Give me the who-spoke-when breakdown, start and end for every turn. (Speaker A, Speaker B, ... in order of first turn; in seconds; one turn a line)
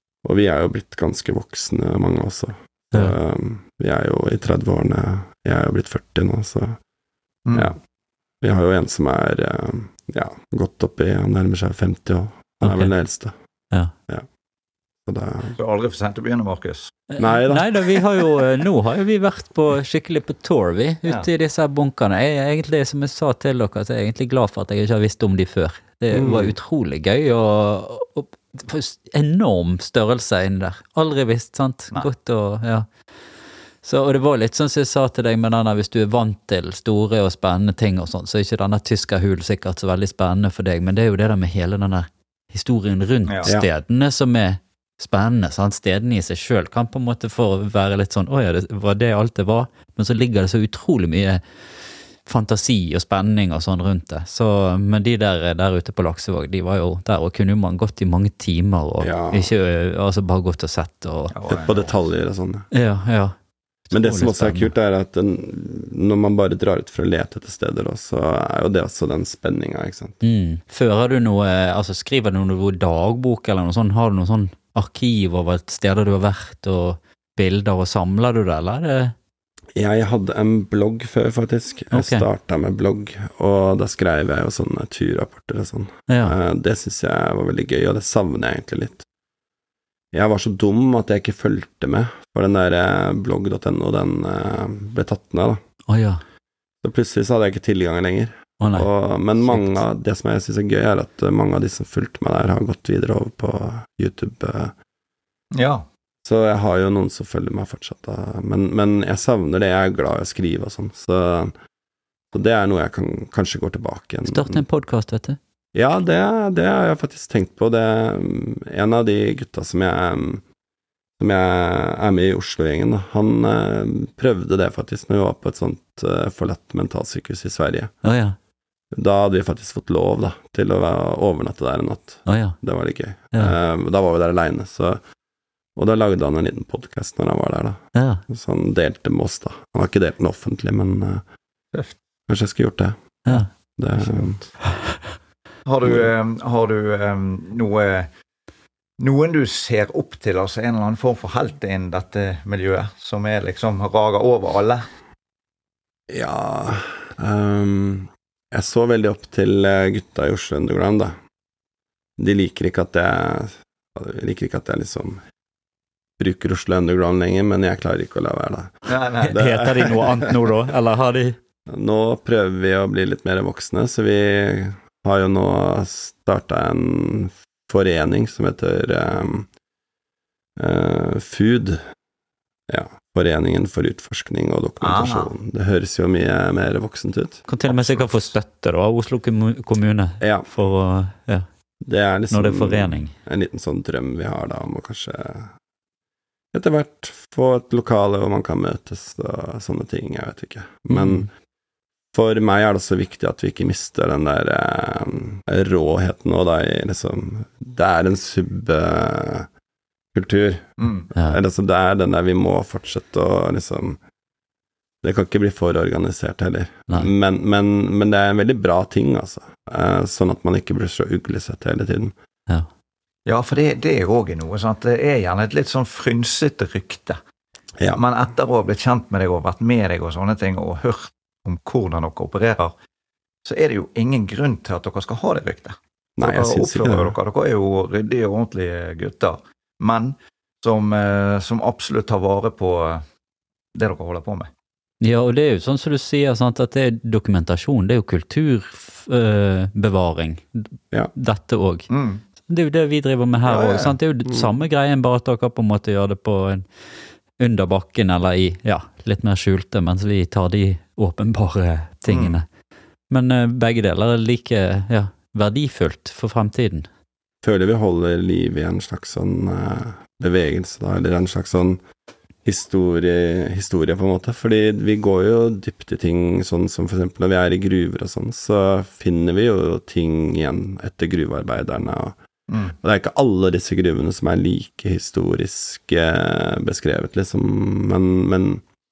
Speaker A: 0.2-6.8
Speaker B: 7.5-7.7
Speaker A: 8.4-13.3
Speaker C: 12.6-12.9
Speaker A: 15.1-15.6
Speaker B: 15.6-17.0
Speaker C: 17.1-32.9
Speaker A: 17.2-18.0
Speaker A: 26.1-26.6
Speaker C: 33.8-51.4
Speaker C: 52.2-61.4
Speaker A: 59.0-59.5
Speaker B: 61.3-62.1
Speaker A: 61.5-62.7
Speaker C: 62.7-63.4
Speaker C: 63.9-64.7
Speaker A: 63.9-70.2
Speaker C: 70.2-79.1
Speaker A: 79.8-89.0
Speaker C: 81.9-82.3
Speaker C: 86.1-86.3
Speaker A: 90.1-95.6
Speaker C: 95.9-96.2
Speaker A: 96.8-104.7
Speaker C: 98.6-98.9
Speaker C: 99.4-99.8
Speaker B: 105.5-105.8
Speaker A: 106.2-111.5
Speaker A: 112.3-114.6
Speaker C: 114.3-115.4
Speaker A: 115.7-120.4
Speaker A: 121.2-128.0
Speaker C: 128.0-128.4
Speaker A: 128.9-135.0
Speaker C: 132.3-132.6
Speaker A: 135.8-141.2
Speaker C: 137.9-138.2
Speaker A: 142.3-144.4
Speaker B: 144.0-144.3
Speaker C: 144.6-145.0
Speaker B: 145.7-148.1
Speaker B: 149.0-154.8
Speaker A: 156.1-161.1
Speaker A: 162.2-165.2
Speaker A: 166.2-168.7
Speaker B: 168.9-169.4
Speaker C: 169.2-171.4
Speaker A: 169.3-170.5
Speaker A: 171.7-179.5
Speaker A: 180.6-181.8
Speaker A: 182.7-187.5
Speaker B: 184.8-185.3
Speaker C: 187.5-191.5
Speaker B: 187.7-188.3
Speaker A: 190.2-190.5
Speaker A: 191.8-195.5
Speaker C: 192.3-193.1
Speaker A: 196.5-201.3
Speaker C: 200.9-201.3
Speaker A: 202.1-209.5
Speaker A: 210.1-214.0
Speaker B: 210.8-211.1
Speaker C: 211.1-211.4
Speaker A: 215.0-222.1
Speaker B: 223.3-227.2
Speaker B: 227.9-232.7
Speaker B: 233.4-243.0
Speaker A: 236.2-237.2
Speaker B: 243.8-244.5
Speaker C: 245.0-251.9
Speaker B: 251.9-252.2
Speaker C: 252.5-256.7
Speaker B: 253.5-254.0
Speaker C: 257.4-262.4
Speaker B: 262.1-262.4
Speaker C: 263.1-266.9
Speaker A: 267.4-271.8
Speaker A: 272.4-282.2
Speaker B: 282.5-282.7
Speaker A: 282.8-288.6